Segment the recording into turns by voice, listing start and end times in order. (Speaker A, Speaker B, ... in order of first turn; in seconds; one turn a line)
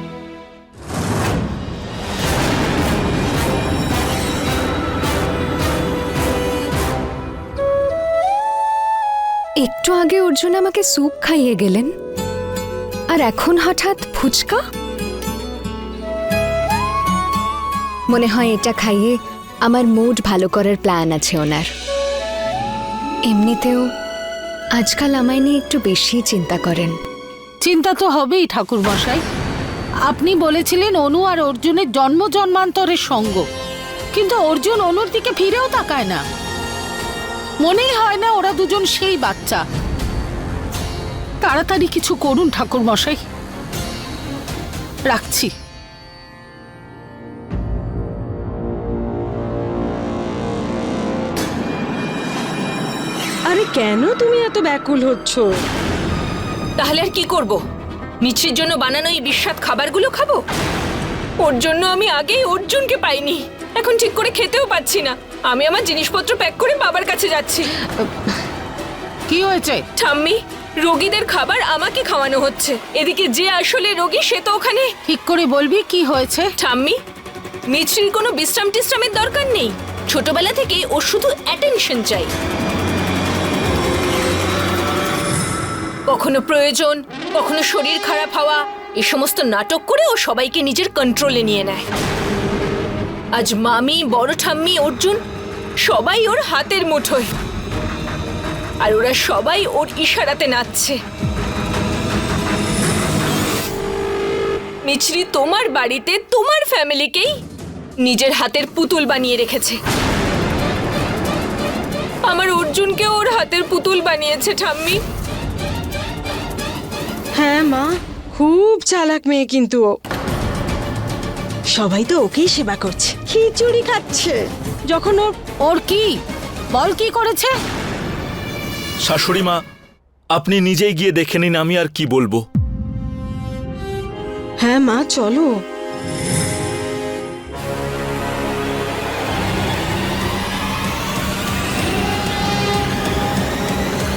Speaker A: 9.6-11.9
Speaker A: 13.1-14.6
Speaker A: 18.1-21.7
Speaker A: 23.3-23.9
Speaker A: 24.8-27.0
Speaker B: 27.6-29.2
Speaker B: 30.1-33.5
Speaker B: 34.1-36.2
Speaker B: 37.6-39.6
Speaker B: 41.4-43.2
Speaker B: 45.1-45.5
Speaker C: 53.5-55.5
Speaker D: 56.8-57.6
Speaker D: 58.2-60.4
Speaker D: 61.4-67.8
Speaker B: 69.3-69.8
Speaker D: 70.0-74.9
Speaker B: 75.1-76.5
Speaker D: 76.6-77.0
Speaker D: 77.7-82.3
Speaker D: 86.1-91.9
Speaker D: 93.4-95.2
Speaker D: 95.8-97.3
Speaker D: 98.8-101.0
Speaker D: 104.8-107.3
Speaker D: 108.0-109.8
Speaker D: 112.3-115.0
Speaker C: 117.4-119.9
Speaker C: 121.7-125.3
Speaker B: 125.5-126.2
Speaker B: 126.7-127.5
Speaker E: 129.0-129.6
Speaker E: 130.3-132.4
Speaker C: 134.6-135.5